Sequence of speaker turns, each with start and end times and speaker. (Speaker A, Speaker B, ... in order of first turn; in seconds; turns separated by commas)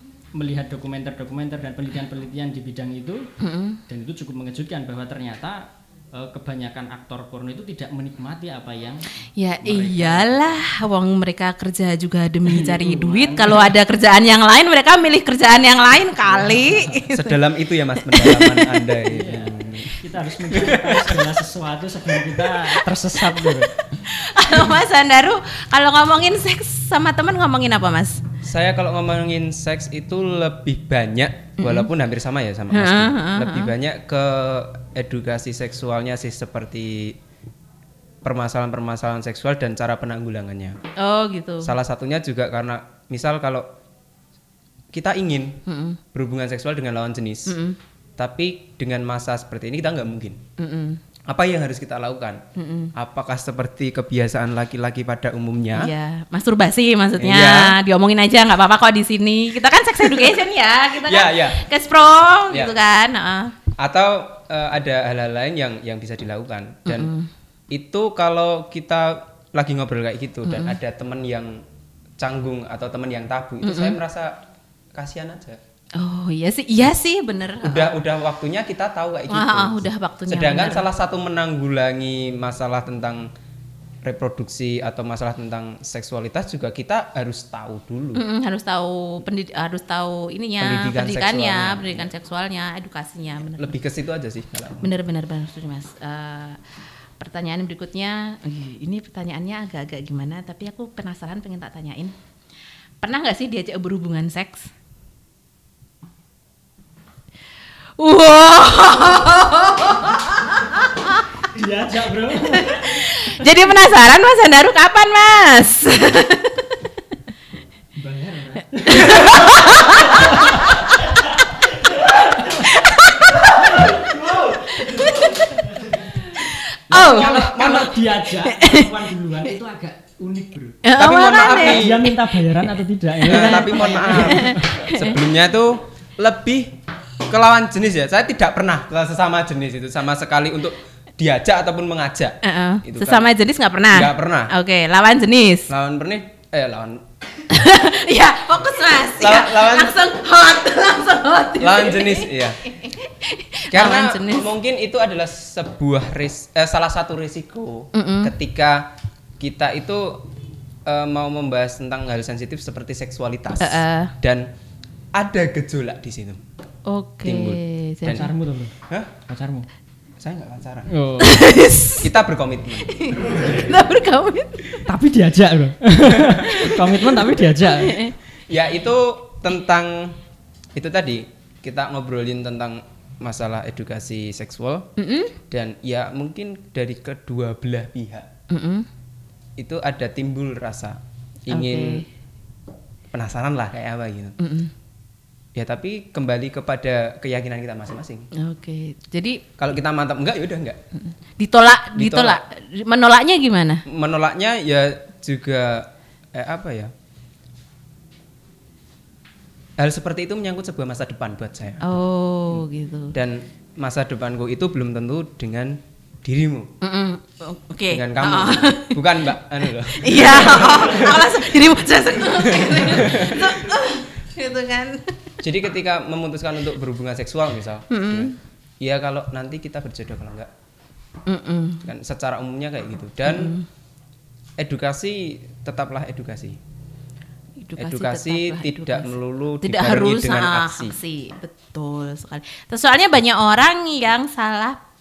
Speaker A: 0.3-3.3, Speaker B: 3.4-3.8, Speaker A: 3.9-9.1, Speaker B: 9.3-17.4, Speaker A: 9.6-10.6, Speaker A: 12.5-13.8, Speaker A: 16.3-17.0, Speaker C: 17.1-19.9, Speaker B: 18.0-18.9, Speaker A: 19.1-23.7, Speaker C: 20.5-21.3, Speaker B: 22.5-28.2, Speaker C: 28.4-37.2, Speaker B: 31.6-31.9, Speaker B: 32.7-33.7, Speaker C: 38.2-40.8, Speaker B: 41.0-41.7, Speaker C: 41.6-43.7, Speaker C: 44.9-45.6, Speaker B: 45.7-46.0, Speaker C: 46.1-47.6, Speaker B: 47.5-47.8, Speaker C: 48.2-50.4, Speaker B: 50.6-51.0, Speaker C: 51.3-52.4, Speaker B: 52.6-52.9, Speaker C: 53.0-55.9, Speaker B: 55.8-63.5, Speaker C: 57.2-57.8, Speaker C: 61.0-61.6, Speaker C: 62.5-62.8, Speaker C: 63.8-67.1, Speaker B: 66.9-67.3, Speaker C: 67.7-71.6, Speaker B: 70.5-70.8, Speaker C: 72.2-74.4, Speaker B: 73.6-74.0, Speaker C: 75.0-75.6, Speaker B: 76.0-78.0, Speaker C: 77.6-83.3, Speaker B: 79.3-80.9, Speaker C: 84.0-88.2, Speaker B: 88.2-93.8, Speaker C: 90.6-92.1, Speaker C: 93.5-94.9, Speaker B: 94.8-96.6, Speaker B: 97.2-102.2, Speaker B: 103.0-104.7, Speaker B: 108.0-111.3, Speaker A: 111.5-113.0, Speaker B: 112.5-116.7, Speaker A: 118.0-121.2, Speaker B: 118.9-121.1, Speaker A: 122.0-122.7, Speaker B: 122.0-125.4, Speaker A: 123.6-126.3, Speaker B: 126.1-127.5, Speaker C: 126.9-128.0, Speaker A: 126.9-130.8, Speaker B: 128.4-128.9, Speaker B: 130.8-132.1, Speaker C: 131.0-132.1, Speaker A: 131.4-134.9, Speaker C: 133.3-136.7, Speaker B: 133.3-135.2, Speaker C: 137.3-143.3, Speaker B: 142.4-145.7, Speaker C: 143.9-144.5, Speaker C: 145.7-147.1, Speaker B: 147.5-154.5, Speaker C: 149.2-150.0, Speaker C: 151.6-152.6, Speaker C: 153.7-160.3, Speaker B: 157.9-158.3, Speaker C: 160.9-164.5, Speaker B: 163.6-164.1, Speaker C: 165.1-166.4, Speaker B: 166.9-168.3, Speaker C: 167.2-168.3, Speaker A: 168.1-168.8, Speaker C: 168.9-169.2, Speaker A: 169.3-169.7, Speaker C: 170.2-170.9, Speaker A: 170.9-171.4, Speaker B: 171.2-172.1, Speaker C: 172.0-173.3, Speaker B: 172.8-174.6, Speaker A: 174.9-178.0, Speaker C: 176.1-176.7, Speaker B: 177.1-178.2, Speaker C: 178.5-180.2, Speaker C: 180.8-184.9, Speaker B: 185.0-185.4, Speaker C: 185.5-188.3, Speaker B: 188.5-188.9, Speaker C: 189.6-192.1, Speaker B: 191.5-192.1, Speaker C: 193.1-194.4, Speaker B: 194.4-194.7, Speaker C: 195.6-198.3, Speaker B: 198.3-199.4, Speaker C: 199.6-200.8, Speaker B: 201.0-203.8, Speaker C: 201.9-202.4, Speaker C: 203.9-206.9, Speaker C: 209.8-211.8, Speaker B: 211.8-213.2, Speaker C: 213.1-216.7, Speaker B: 216.8-219.2, Speaker C: 217.9-221.4, Speaker B: 219.9-225.3, Speaker C: 222.3-223.6, Speaker C: 225.4-230.5, Speaker B: 227.9-228.3, Speaker B: 231.3-231.9, Speaker C: 231.8-233.5, Speaker B: 233.2-233.7, Speaker C: 234.6-236.6, Speaker B: 237.6-239.1, Speaker C: 237.8-241.0, Speaker B: 239.6-244.8